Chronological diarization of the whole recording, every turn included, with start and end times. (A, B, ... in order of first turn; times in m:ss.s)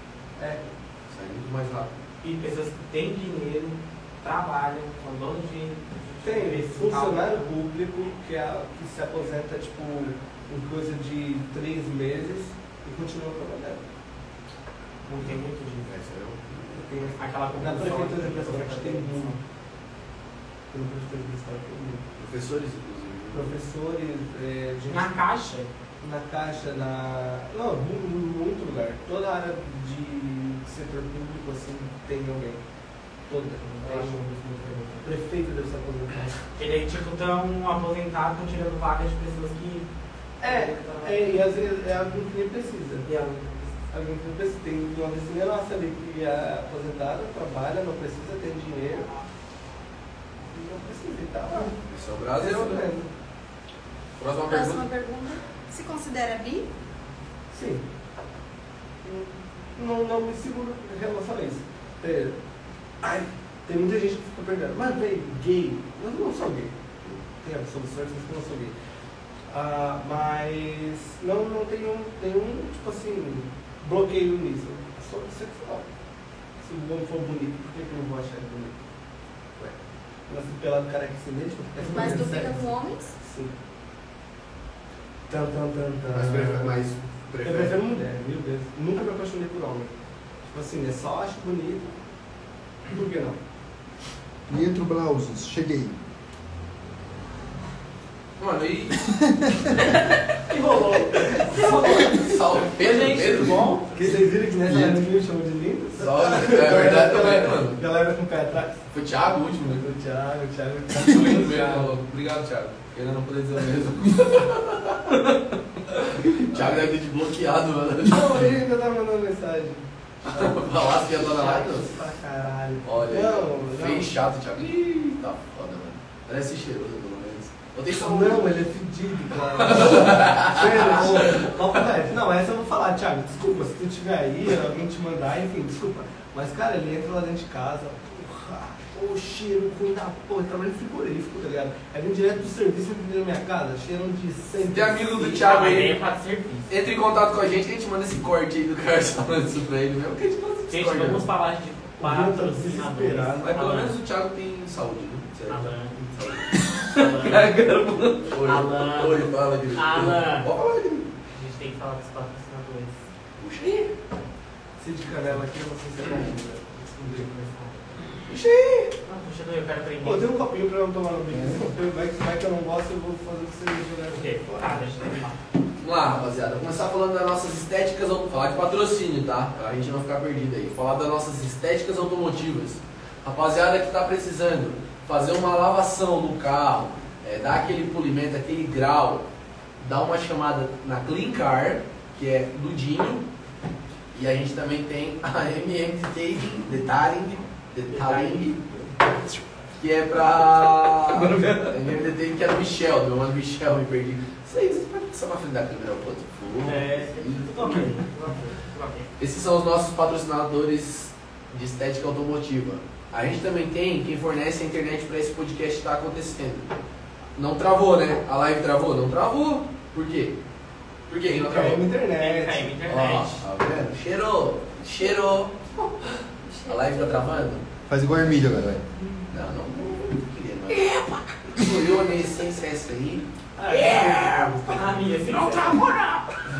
0:00.4-0:00.6 A
0:01.1-0:02.0 B
0:02.2-0:07.4 C
0:06.2-0:13.8 A
0:15.0-0:15.9 C
0:15.8-0:16.8 B
0:16.7-0:19.4 A
0:17.2-0:19.4 C
0:20.7-0:22.0 A
0:22.2-0:23.5 B
0:23.3-0:25.2 A
0:24.9-0:25.7 C
0:26.0-0:32.6 A
0:33.3-0:34.2 A
0:33.6-0:35.1 C
0:35.0-0:36.4 A
0:36.6-0:39.9 C
0:40.4-0:43.0 A
0:40.4-0:41.4 C
0:43.0-0:43.7 C
0:43.9-0:49.1 A
0:50.5-0:51.7 A
0:51.8-0:52.8 B
0:52.4-0:53.1 A
0:54.2-0:54.9 B
0:54.5-0:56.7 D
0:57.5-0:57.8 A
0:59.0-1:02.4 A
1:03.0-1:08.7 A
1:09.5-1:15.8 A
1:16.6-1:18.8 A
1:20.3-1:23.6 A
1:21.8-1:22.2 C
1:21.8-1:23.1 D
1:25.3-1:26.7 A
1:26.1-1:27.8 B
1:27.4-1:29.9 A
1:30.4-1:31.9 A
1:32.9-1:33.4 A
1:34.5-1:36.0 E
1:38.4-1:39.1 B
1:39.8-1:43.9 C
1:41.2-1:41.8 A
1:41.5-1:45.0 B
1:43.9-1:48.8 A
1:46.0-1:47.8 B
1:48.9-1:49.8 B
1:49.7-1:51.9 A
1:51.0-1:55.2 B
1:56.1-1:58.6 B
1:58.0-2:04.1 A
2:00.2-2:01.9 B
2:02.8-2:08.5 B
2:08.0-2:25.4 A
2:09.6-2:11.5 B
2:24.6-2:26.0 B
2:25.2-2:26.7 C
2:26.7-2:31.2 B
2:30.7-2:34.0 C
2:32.0-2:33.5 A
2:33.4-2:36.6 B
2:35.5-2:36.0 C
2:36.7-2:38.3 F
2:36.9-2:37.5 C
2:38.3-2:41.1 B
2:38.4-2:40.5 C
2:41.3-2:43.0 C
2:43.4-2:43.9 B
2:44.8-2:47.3 A
2:46.0-2:46.3 B
2:47.0-2:47.8 C
2:48.3-2:48.9 B
2:49.0-2:50.4 C
2:50.0-2:55.0 A
2:54.1-2:55.4 C
2:55.8-3:09.3 B
3:09.8-3:13.3 B
3:14.1-3:18.6 B
3:17.9-3:18.8 C
3:19.8-3:28.0 B
3:21.0-3:21.8 F
3:26.6-3:29.1 C
3:29.2-3:36.7 B
3:37.4-3:40.4 B
3:41.1-3:41.9 B
3:41.3-3:42.8 A
3:42.2-3:43.4 C
3:42.9-3:47.6 B
3:46.5-3:47.5 D
3:47.9-3:48.8 E
3:49.3-3:50.9 B
3:51.5-3:54.7 B
3:53.6-3:55.1 A
3:54.7-3:55.9 C